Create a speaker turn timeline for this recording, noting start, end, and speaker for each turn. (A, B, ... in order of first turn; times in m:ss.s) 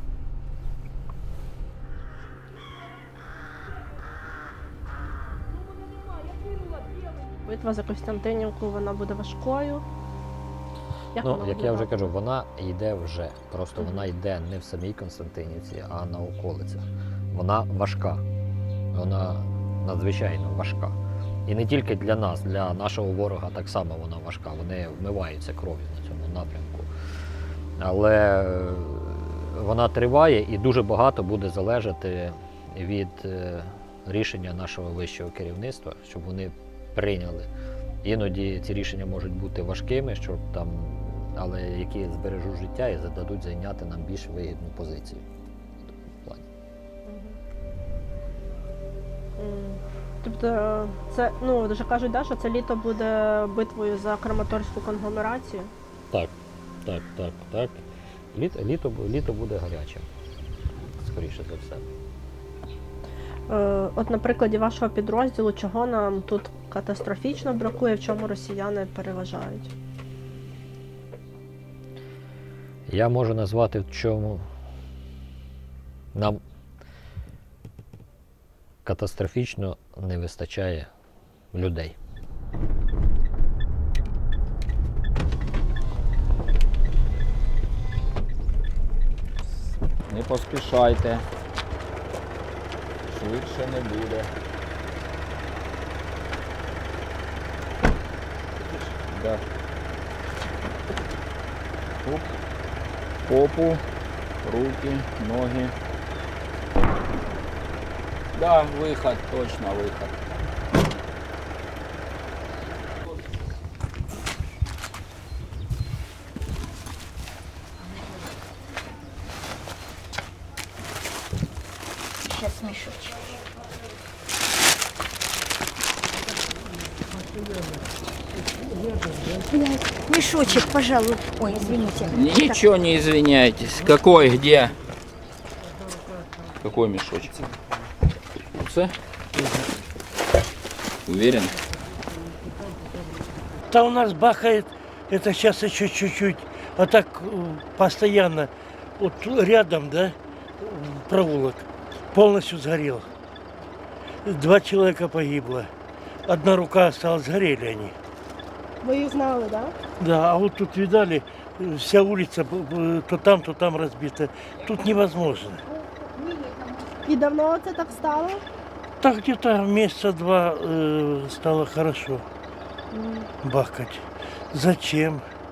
0:07.4-0:09.8 A
0:11.1-0:12.0 A
0:11.2-0:18.2 B
0:18.9-0:21.0 B
0:21.5-0:26.9 B
0:27.8-0:37.5 B
0:38.0-0:45.2 B
0:47.0-0:47.4 A
0:49.4-0:55.7 A
0:56.8-1:00.1 B
1:01.0-1:01.8 B
1:03.5-1:09.7 A
1:12.9-1:14.4 B
1:16.1-1:16.4 B
1:18.8-1:20.9 B
1:21.5-1:21.9 B
1:30.1-1:31.2 C
1:33.1-1:34.3 C
1:38.8-1:39.4 C
1:42.0-1:42.3 C
1:43.2-1:43.8 C
1:44.4-1:45.7 C
1:48.3-1:50.2 C
2:02.2-2:03.4 D
2:09.4-2:12.6 D
2:12.1-2:14.8 C
2:16.6-2:17.4 C
2:18.6-2:18.9 C
2:21.1-2:21.6 C
2:23.7-2:33.1 E
2:34.2-2:35.7 E
2:36.2-2:37.9 E
2:38.8-2:39.7 A
2:40.0-2:45.6 E
2:44.6-2:45.0 C
2:45.7-2:47.0 D
2:47.0-2:48.4 A
2:49.0-2:52.2 E
2:52.9-2:53.3 A
2:53.4-2:55.2 E